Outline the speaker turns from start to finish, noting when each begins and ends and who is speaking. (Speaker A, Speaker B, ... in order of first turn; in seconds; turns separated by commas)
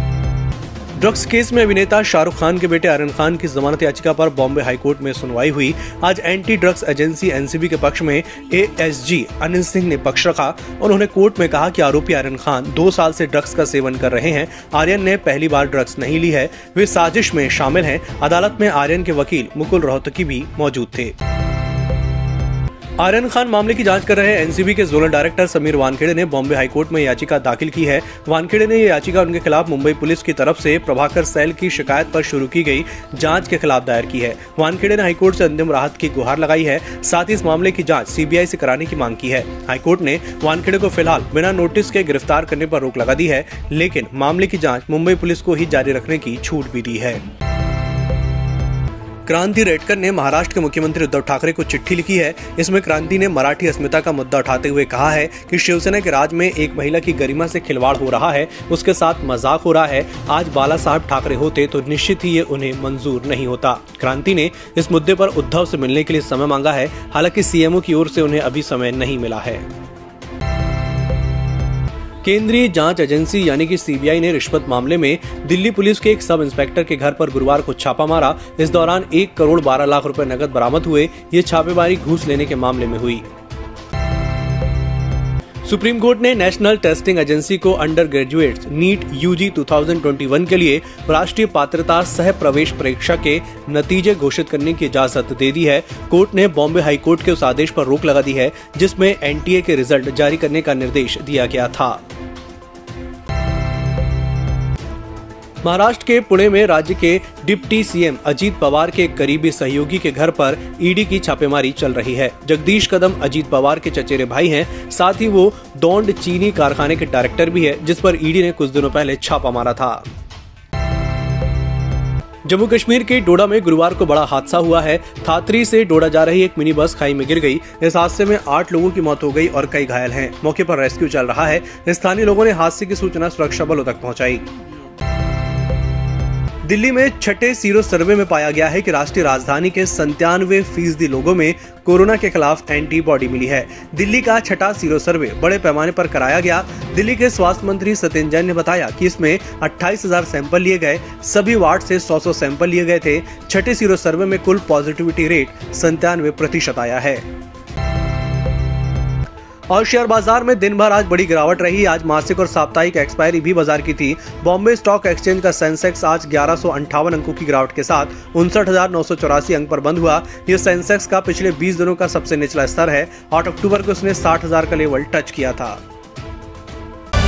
Speaker A: 1.0-21.1, Speaker A: 23.0-47.2, Speaker A: 49.3-69.7, Speaker A: 72.2-83.3, Speaker A: 85.6-102.0, Speaker A: 105.6-120.0, Speaker A: 122.4-134.4, Speaker A: 136.6-157.2, Speaker A: 159.7-175.8